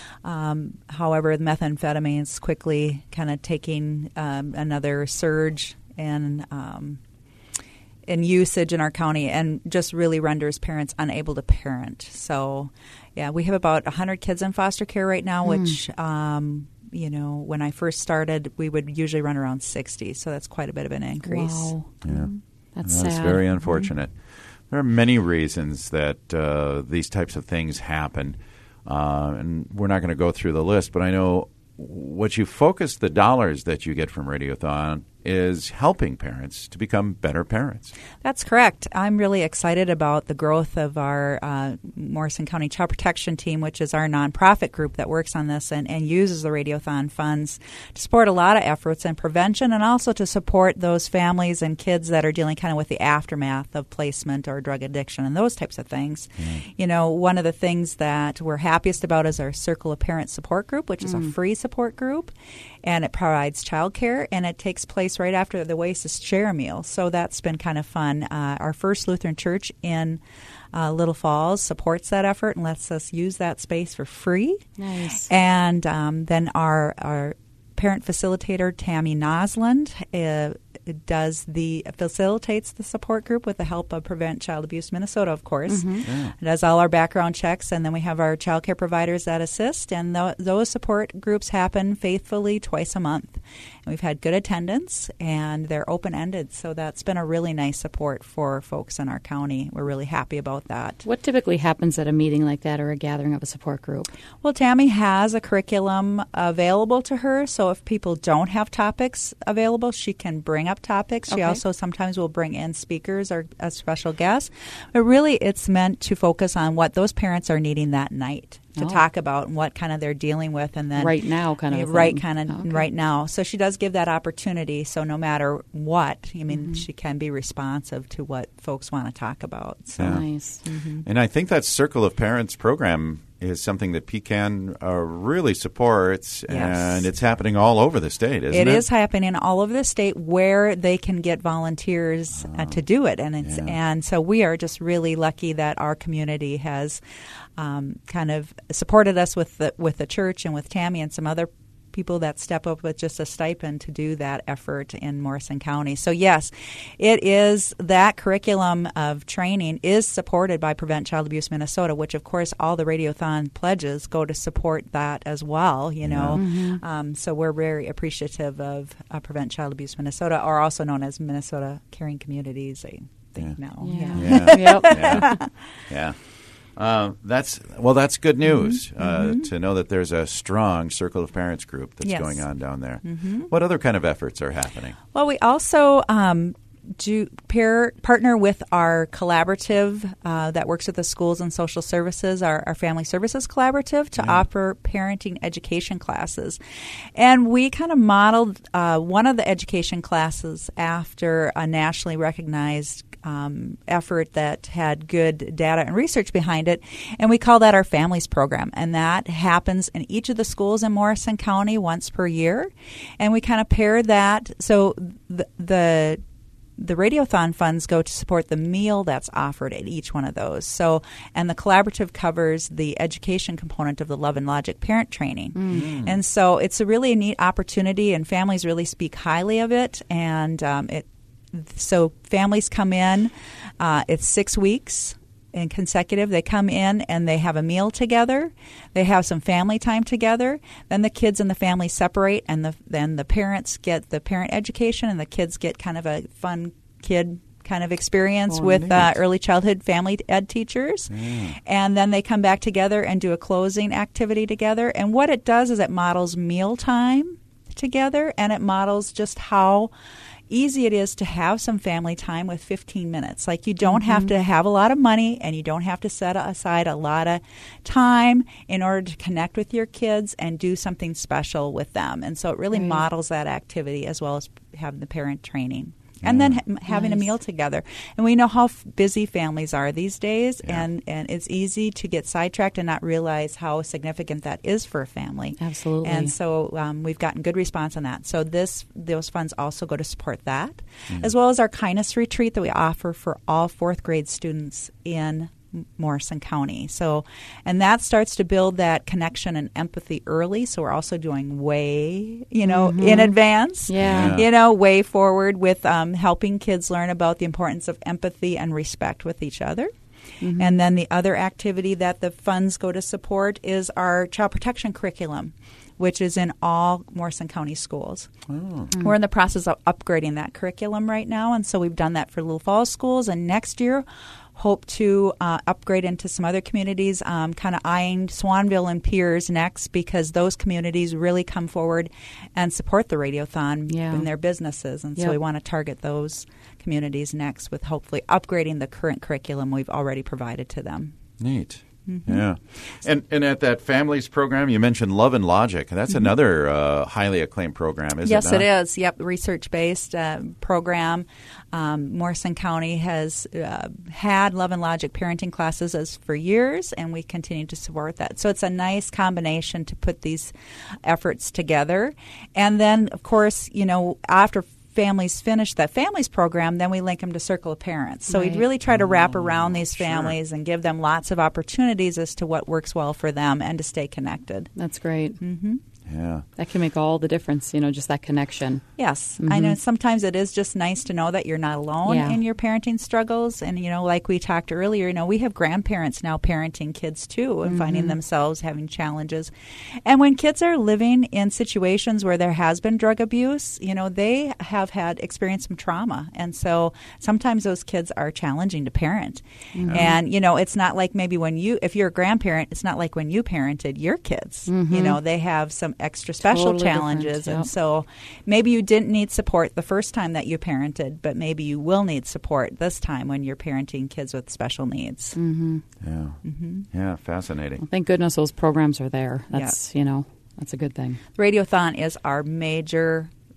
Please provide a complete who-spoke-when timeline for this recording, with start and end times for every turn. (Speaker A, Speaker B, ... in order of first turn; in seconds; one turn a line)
Speaker A: 0.2-7.0
Speaker A: 8.1-21.7
Speaker B: 15.4-15.8
Speaker B: 21.2-23.9
Speaker C: 22.0-22.3
Speaker C: 22.8-24.2
Speaker C: 24.7-37.9
Speaker A: 38.2-70.2
Speaker B: 61.0-61.3
Speaker A: 70.7-101.0
Speaker B: 74.8-75.3
Speaker B: 85.7-86.1
Speaker C: 86.0-86.3
Speaker B: 101.0-104.1
Speaker A: 104.4-131.1
Speaker B: 111.3-111.6
Speaker B: 118.8-119.0
Speaker B: 121.0-122.9
Speaker B: 126.5-126.8
Speaker C: 130.0-130.3
Speaker B: 130.0-130.6
Speaker C: 131.0-138.8
Speaker A: 136.5-137.1
Speaker A: 138.5-147.0
Speaker C: 142.4-142.8
Speaker C: 143.4-143.8
Speaker A: 147.6-175.5
Speaker C: 166.0-166.4
Speaker B: 166.3-166.8
Speaker B: 173.8-175.3
Speaker C: 174.1-175.3
Speaker C: 175.9-176.2
Speaker C: 176.7-185.0
Speaker A: 178.4-179.5
Speaker A: 182.0-183.5
Speaker A: 185.1-196.6
Speaker A: 197.2-216.2
Speaker A: 216.8-259.9
Speaker B: 225.6-225.9
Speaker C: 225.7-226.2
Speaker C: 248.5-249.2
Speaker C: 251.1-251.6
Speaker A: 260.5-309.9
Speaker B: 263.9-264.3
Speaker B: 272.7-273.0
Speaker C: 276.2-276.6
Speaker B: 276.9-277.3
Speaker B: 285.6-286.3
Speaker B: 302.6-304.4
Speaker C: 304.0-304.5
Speaker B: 310.4-310.8
Speaker A: 310.6-318.3
Speaker C: 318.5-318.9
Speaker A: 318.9-341.1
Speaker B: 333.9-334.3
Speaker C: 341.4-348.7
Speaker A: 342.1-342.4
Speaker A: 346.1-346.3
Speaker A: 348.2-374.7
Speaker B: 368.3-368.6
Speaker C: 368.9-370.4
Speaker B: 374.8-375.4
Speaker A: 375.4-375.8
Speaker C: 376.1-376.5
Speaker B: 376.6-378.8
Speaker A: 379.0-389.5
Speaker B: 379.4-379.8
Speaker B: 382.1-382.4
Speaker B: 387.7-388.2
Speaker A: 390.1-415.4
Speaker B: 399.7-400.2
Speaker C: 399.8-400.1
Speaker B: 404.7-405.2
Speaker B: 406.4-407.7
Speaker B: 415.4-415.8
Speaker C: 416.0-416.4
Speaker A: 416.4-416.9
Speaker C: 416.9-417.8
Speaker B: 417.8-421.2
Speaker A: 419.5-419.8
Speaker A: 421.4-423.3